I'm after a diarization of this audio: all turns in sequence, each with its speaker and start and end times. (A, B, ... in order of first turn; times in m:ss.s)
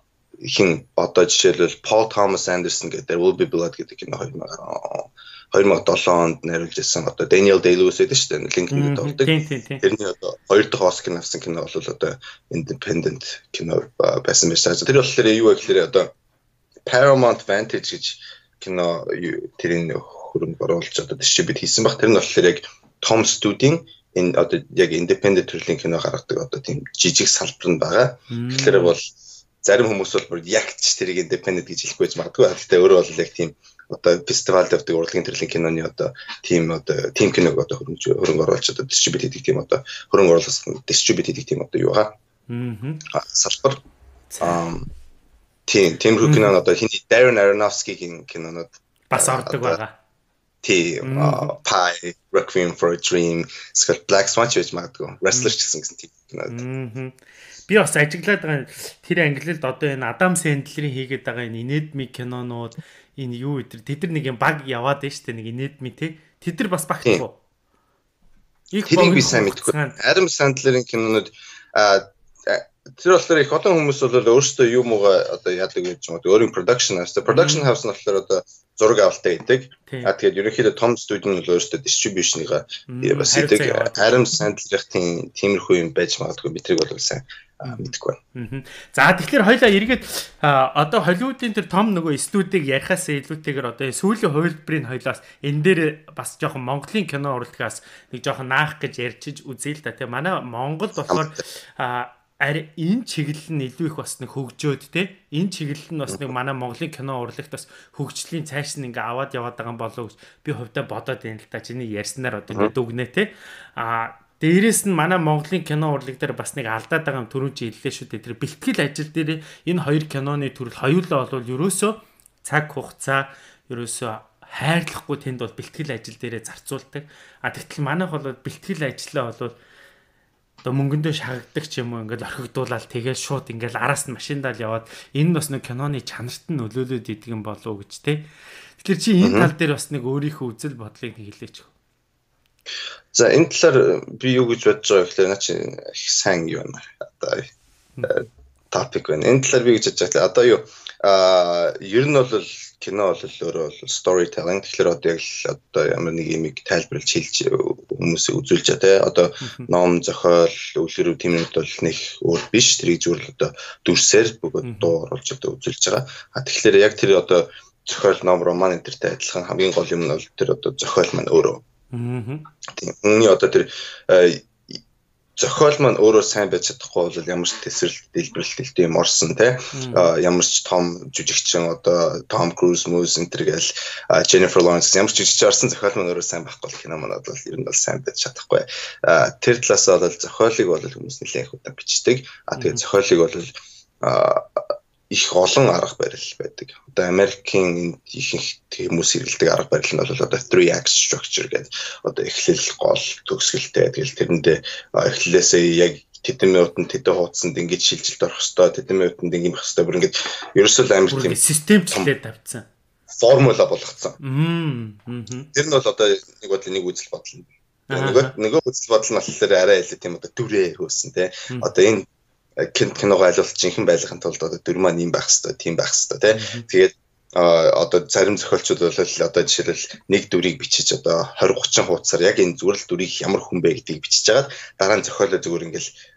0:00.4-0:16.1 A
0:08.7-0:09.8 B
0:16.8-0:42.2 A
0:28.3-0:29.0 B
0:42.5-0:43.0 B
0:43.1-0:43.8 A
0:44.3-0:44.6 B
0:44.4-0:44.9 A
0:45.7-0:49.8 A
0:46.2-0:46.5 B
0:49.1-0:49.9 B
0:50.6-0:56.6 A
0:51.0-0:51.5 B
0:56.5-1:07.4 B
1:08.7-1:10.0 B
1:08.9-1:28.2 A
1:17.2-1:17.7 B
1:19.9-1:20.1 B
1:22.9-1:24.1 B
1:28.4-2:09.5 B
1:41.1-1:41.4 A
2:10.6-2:18.2 B
2:18.8-2:21.7 B
2:19.2-2:19.5 A
2:23.1-2:27.5 A
2:28.0-2:51.6 A
2:44.6-2:44.9 B
2:51.9-2:52.4 B
2:52.7-2:54.8 A
2:55.4-3:31.4 A
2:59.7-3:00.1 B
3:12.6-3:12.8 B
3:31.1-3:32.6 B
3:33.2-3:34.2 A
3:34.2-3:35.5 B
3:35.5-3:42.1 A
3:37.9-3:38.3 B
3:42.6-3:55.9 A
3:46.3-3:46.6 B